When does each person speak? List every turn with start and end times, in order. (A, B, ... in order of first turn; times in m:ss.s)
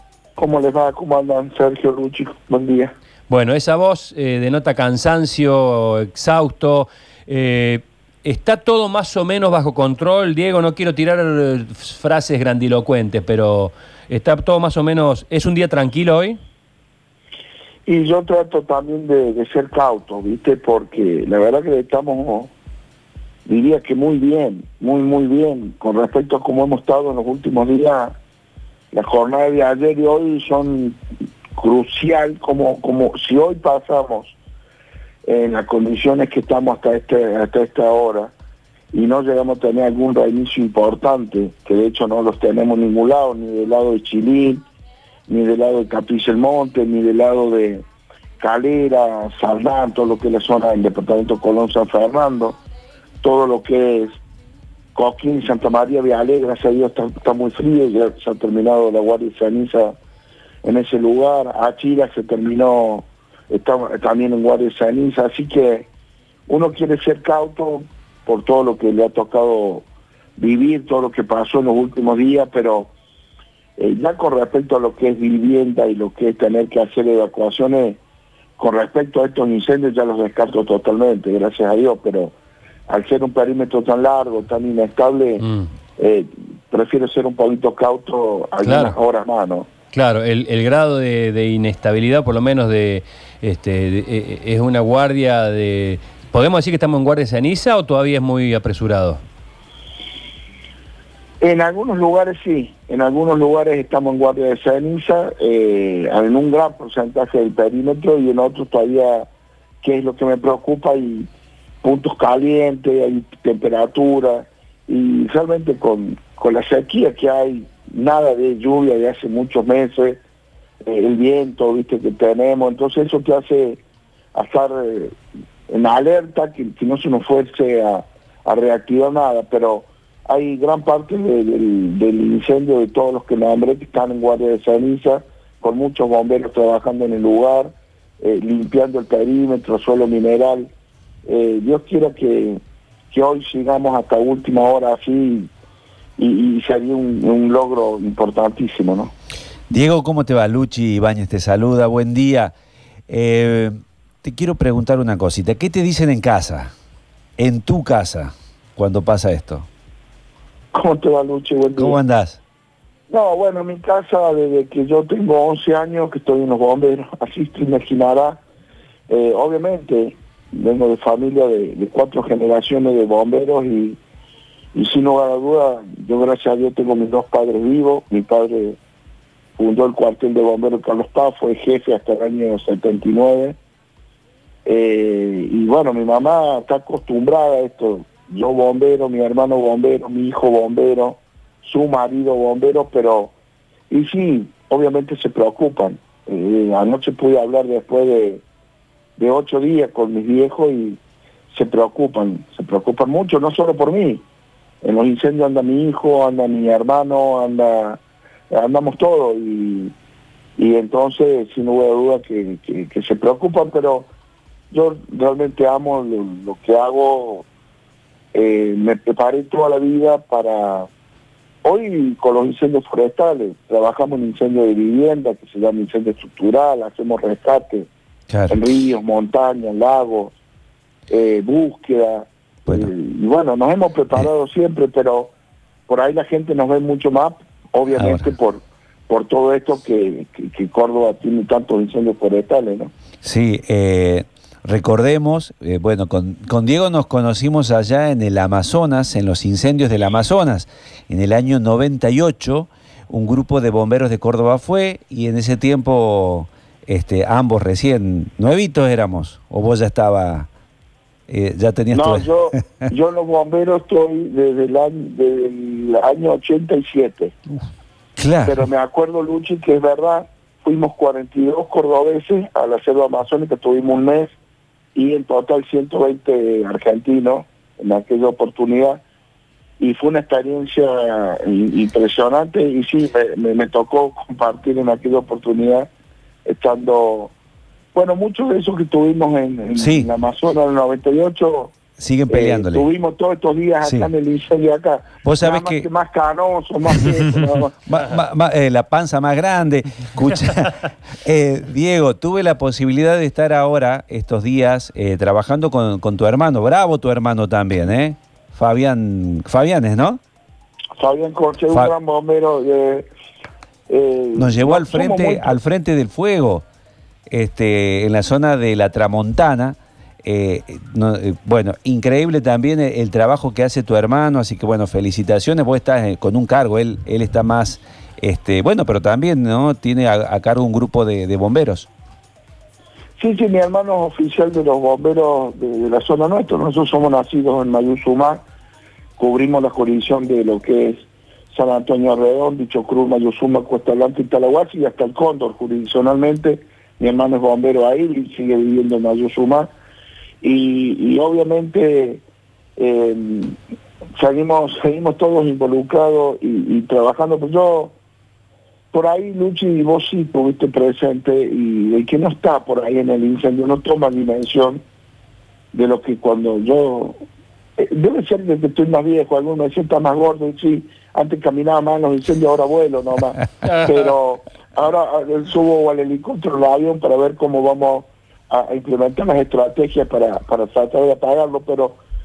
0:00.4-0:02.9 A
0:03.3-0:16.4 B
0:17.8-0:22.5 A
0:23.4-0:28.2 A
0:28.9-0:31.0 A
0:31.5-0:34.4 A
0:35.2-0:38.3 A
0:38.9-0:44.6 A
0:45.3-0:47.8 A
0:48.4-0:52.6 A
0:53.2-0:54.2 A
0:54.9-1:00.0 A
1:00.6-1:05.9 A
1:06.5-1:12.9 A
1:13.8-1:18.0 A
1:18.6-1:22.4 A
1:22.9-1:25.4 A
1:25.4-1:25.7 B
1:26.0-1:29.7 A
1:28.6-1:29.0 B
1:29.9-1:39.2 B
1:41.4-1:49.3 A
1:49.8-1:51.3 A
1:51.8-2:00.2 A
2:00.8-2:03.8 A
2:04.3-2:05.1 A
2:05.7-2:20.7 A
2:21.2-2:25.5 A
2:26.2-2:29.1 A
2:29.7-2:32.5 C
2:33.1-2:36.7 C
2:37.4-2:39.7 C
2:40.7-2:42.0 A
2:41.8-2:42.4 C
2:43.1-2:48.4 A
2:49.1-2:54.0 A
2:54.7-2:58.8 A
2:59.6-3:03.6 A
3:04.6-3:13.3 A
3:13.9-3:18.4 A
3:19.2-3:21.0 A
3:21.5-3:24.2 A
3:24.8-3:29.9 A
3:30.6-3:34.1 A
3:34.7-3:37.5 A
3:38.3-3:40.9 A
3:41.6-3:47.9 A
3:48.3-3:48.6 C
3:48.5-3:50.4 A
3:51.1-3:55.3 A
3:55.9-4:02.9 A
3:57.9-3:58.3 C
4:03.2-4:20.5 C
4:21.3-4:22.8 C
4:21.9-4:27.4 A
4:28.2-4:28.6 C
4:28.4-4:34.3 A
4:34.9-4:39.0 A
4:39.8-4:45.9 A
4:46.4-4:47.3 A
4:47.9-4:51.8 A
4:49.8-4:50.1 C
4:52.0-4:52.9 C
4:52.3-4:57.7 A
4:53.8-4:54.1 C
4:55.2-4:55.9 C
4:57.8-5:10.2 C
5:11.0-5:13.1 A
5:13.9-5:15.5 A
5:14.3-5:16.6 C
5:17.3-5:31.9 C
5:33.2-5:38.4 A
5:39.2-5:49.7 A
5:50.4-5:52.2 A
5:52.8-5:53.6 A
5:54.2-5:58.0 A
5:58.9-6:04.8 A
6:05.7-6:07.2 A
6:07.8-6:22.0 A
6:13.6-6:14.0 B